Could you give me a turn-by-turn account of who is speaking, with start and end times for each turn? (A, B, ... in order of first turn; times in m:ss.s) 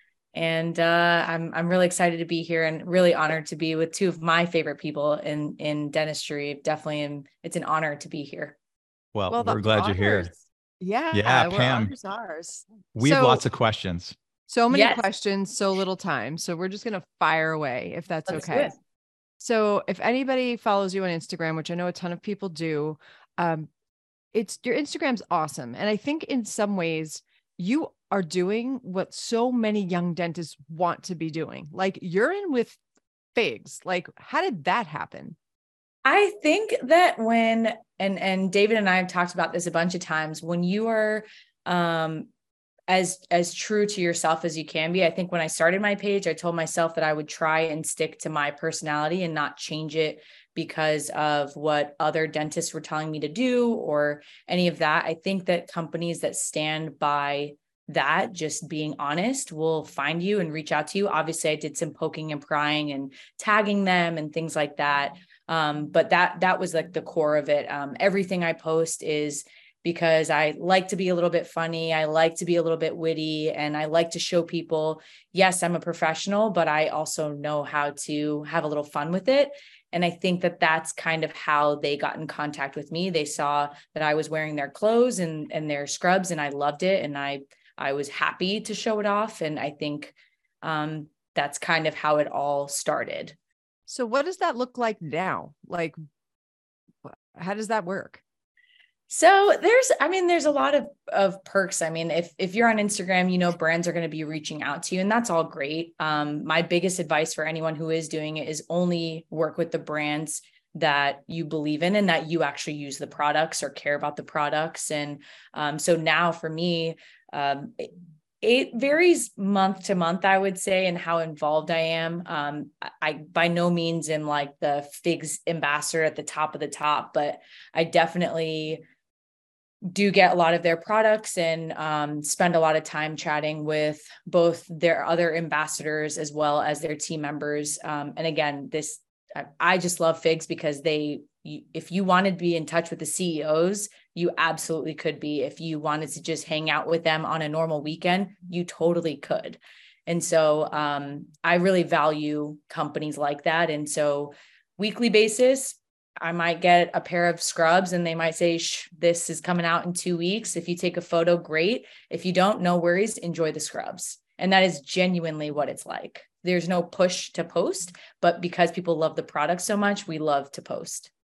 0:00.3-0:08.6 A
0:09.1-0:10.3 B
0:09.3-0:13.4 C
0:11.1-0:11.9 B
0:13.0-0:14.2 B
0:14.5-0:18.7 C
0:14.7-0:15.0 A
0:18.3-0:18.8 A
0:19.4-0:23.7 C
0:24.3-0:32.8 C
0:33.4-0:35.4 C
0:36.0-0:42.3 A
0:42.9-1:33.4 A
1:33.9-1:36.0 C
1:37.0-1:38.2 C
1:39.1-2:08.8 A
2:09.8-2:51.1 A